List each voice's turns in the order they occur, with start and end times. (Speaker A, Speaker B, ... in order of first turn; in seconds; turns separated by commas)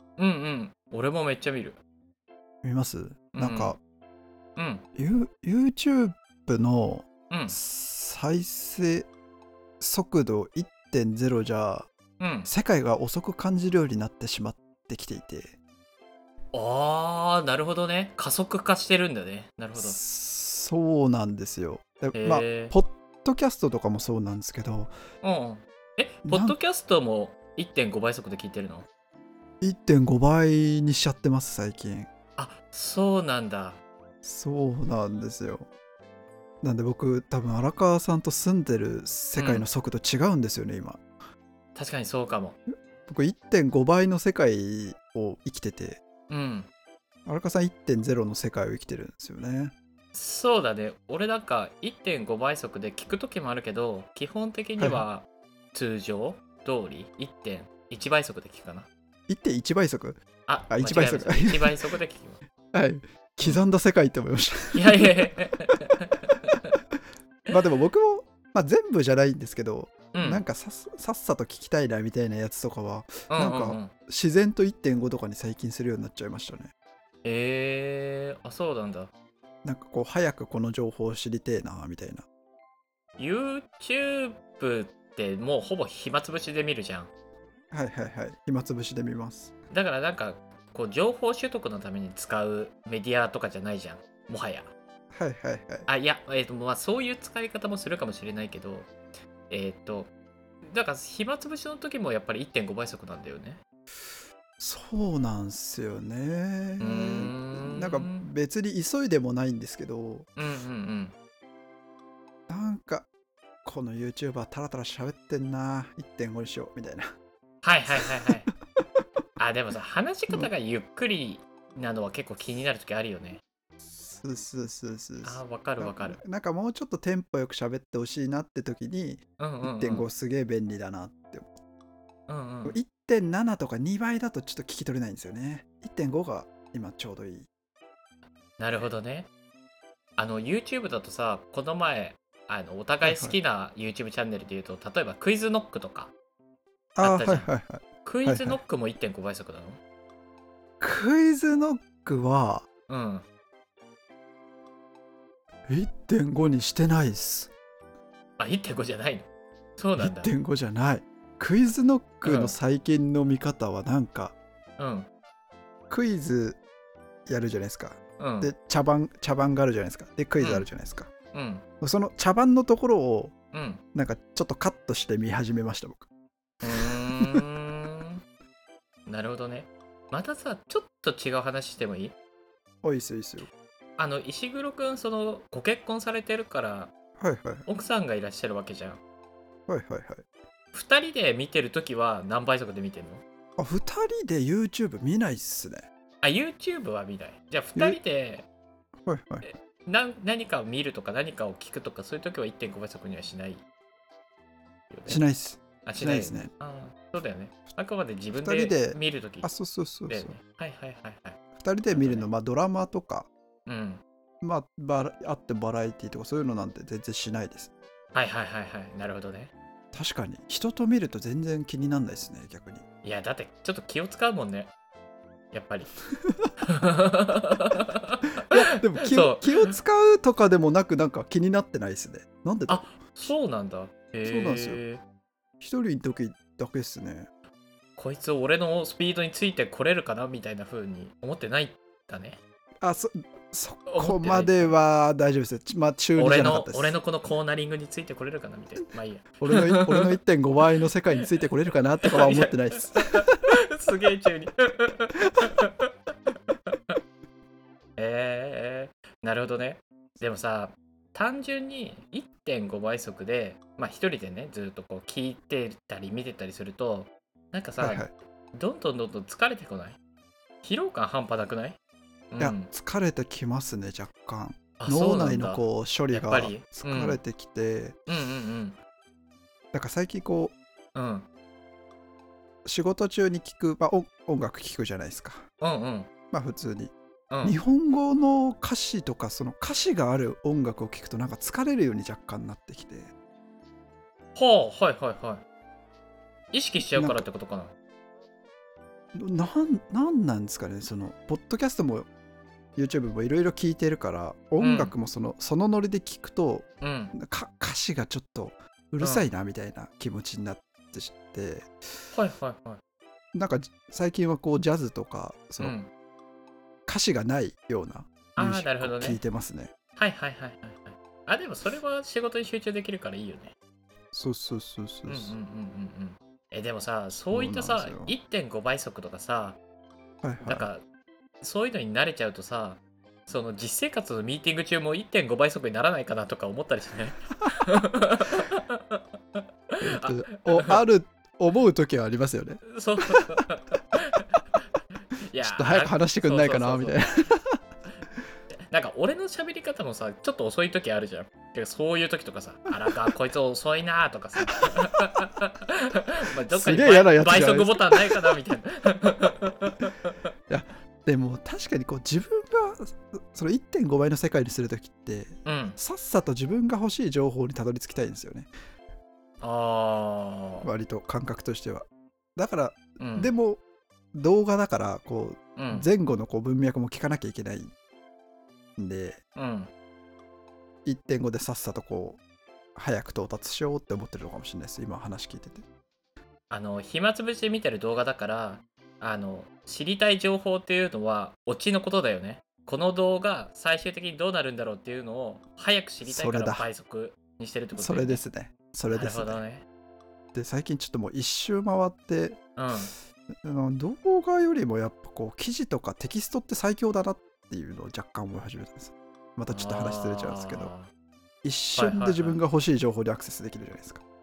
Speaker A: 0.2-1.8, Speaker B: 2.6-3.8, Speaker A: 3.3-3.8, Speaker A: 4.5-4.8, Speaker B: 5.0-9.1, Speaker A: 7.3-7.6, Speaker B: 9.8-11.9, Speaker A: 12.2-12.5, Speaker B: 12.4-15.6, Speaker A: 16.5-20.0, Speaker B: 19.8-24.9, Speaker A: 22.1-22.7, Speaker A: 25.2-28.9, Speaker B: 26.2-26.6, Speaker B: 29.6-32.1, Speaker A: 32.4-33.8, Speaker B: 34.2-35.7, Speaker B: 36.6-41.0, Speaker A: 39.4-39.6, Speaker A: 41.7-42.6, Speaker B: 43.0-46.0, Speaker A: 46.3-46.7, Speaker B: 47.3-49.7, Speaker A: 50.1-58.9, Speaker B: 54.8-55.0, Speaker B: 59.3-61.8, Speaker A: 60.5-62.4, Speaker B: 62.7-65.3, Speaker A: 64.7-66.5, Speaker B: 67.5-76.7, Speaker A: 70.1-70.4, Speaker A: 73.3-73.9, Speaker A: 77.2-79.1, Speaker B: 79.6-82.2, Speaker A: 83.2-87.1, Speaker B: 87.7-89.5, Speaker A: 89.7-94.7, Speaker B: 95.1-95.9, Speaker A: 95.9-98.9, Speaker A: 99.5-100.1, Speaker A: 100.6-103.6, Speaker B: 104.6-110.3, Speaker A: 106.8-108.3, Speaker A: 110.4-111.1, Speaker B: 112.5-113.1, Speaker B: 113.6-117.1, Speaker A: 117.6-118.5, Speaker A: 119.4-123.4, Speaker B: 123.8-131.6, Speaker A: 125.2-126.2, Speaker A: 129.4-130.1, Speaker A: 132.3-132.8, Speaker B: 132.6-137.5, Speaker A: 138.6-139.3, Speaker A: 140.2-146.1, Speaker B: 143.0-143.4, Speaker B: 146.9-148.6, Speaker A: 147.0-147.5, Speaker A: 148.0-149.8, Speaker B: 150.8-152.7, Speaker A: 152.9-153.2, Speaker B: 155.7-157.5, Speaker A: 158.4-159.2, Speaker A: 159.8-160.3, Speaker B: 160.0-164.4, Speaker A: 162.2-162.6, Speaker A: 164.8-165.1, Speaker B: 165.9-166.6, Speaker B: 167.2-171.1, Speaker A: 168.2-168.5, Speaker A: 170.4-170.7, Speaker A: 171.3-171.6, Speaker B: 171.8-173.3, Speaker A: 173.5-173.8, Speaker B: 173.9-176.1, Speaker A: 176.6-178.2, Speaker B: 176.8-177.4, Speaker A: 179.1-182.1, Speaker B: 182.8-183.5, Speaker A: 184.0-186.9, Speaker B: 187.2-187.7, Speaker A: 187.7-189.0, Speaker B: 189.7-190.2, Speaker A: 190.7-193.2, Speaker B: 193.6-195.9, Speaker A: 196.2-198.5, Speaker B: 199.0-199.5, Speaker A: 199.4-203.6, Speaker A: 204.9-205.2, Speaker B: 205.1-206.5, Speaker A: 205.8-209.5, Speaker B: 208.3-210.3, Speaker A: 210.1-212.3, Speaker B: 211.6-213.3, Speaker A: 213.7-214.0, Speaker B: 214.4-217.7, Speaker A: 218.1-219.5, Speaker B: 219.9-222.8, Speaker A: 223.0-224.7, Speaker A: 225.5-225.9, Speaker A: 226.6-229.7, Speaker B: 228.5-233.3, Speaker A: 232.7-235.0, Speaker B: 234.2-234.8, Speaker B: 235.6-237.3, Speaker A: 238.0-242.4, Speaker B: 242.8-247.0, Speaker A: 243.9-244.7, Speaker A: 246.2-250.2, Speaker B: 249.4-253.3, Speaker A: 252.0-255.9, Speaker A: 258.0-270.0, Speaker B: 267.8-268.1, Speaker A: 270.6-271.8, Speaker A: 272.3-272.7, Speaker B: 272.4-278.0, Speaker A: 274.8-277.2, Speaker A: 278.1-278.8, Speaker B: 279.7-280.6, Speaker A: 280.9-281.2, Speaker B: 282.6-285.4, Speaker A: 285.6-286.1, Speaker B: 286.3-293.1, Speaker A: 287.3-287.6, Speaker A: 294.3-295.4, Speaker A: 296.5-297.7, Speaker B: 296.9-297.2, Speaker B: 299.1-302.1, Speaker B: 302.8-311.7, Speaker A: 304.6-304.9, Speaker A: 306.8-307.1, Speaker A: 309.0-309.2, Speaker A: 312.1-312.8, Speaker B: 313.3-315.8, Speaker A: 315.6-315.9, Speaker B: 316.9-319.7, Speaker A: 318.4-319.2, Speaker A: 319.9-323.5, Speaker B: 324.1-325.3, Speaker A: 325.1-329.6, Speaker B: 327.3-328.1, Speaker B: 330.2-330.7, Speaker A: 330.4-330.8, Speaker A: 331.4-340.8, Speaker B: 339.8-343.2, Speaker A: 342.7-344.4, Speaker A: 345.2-347.3, Speaker B: 345.4-347.6, Speaker A: 348.5-360.1, Speaker B: 356.5-358.4, Speaker B: 360.5-368.5, Speaker A: 365.4-365.8, Speaker A: 369.4-370.7, Speaker B: 370.6-373.6, Speaker A: 373.0-373.3, Speaker B: 374.1-377.7, Speaker A: 375.6-375.9, Speaker B: 378.8-379.2, Speaker A: 379.4-379.7, Speaker B: 380.8-382.2, Speaker B: 382.8-385.6, Speaker A: 386.5-398.2, Speaker B: 396.0-396.7, Speaker B: 397.8-399.4, Speaker A: 398.9-399.6, Speaker B: 400.3-402.4, Speaker A: 402.6-402.9, Speaker B: 403.4-410.7, Speaker A: 409.5-410.9, Speaker B: 411.4-414.0, Speaker A: 411.7-412.4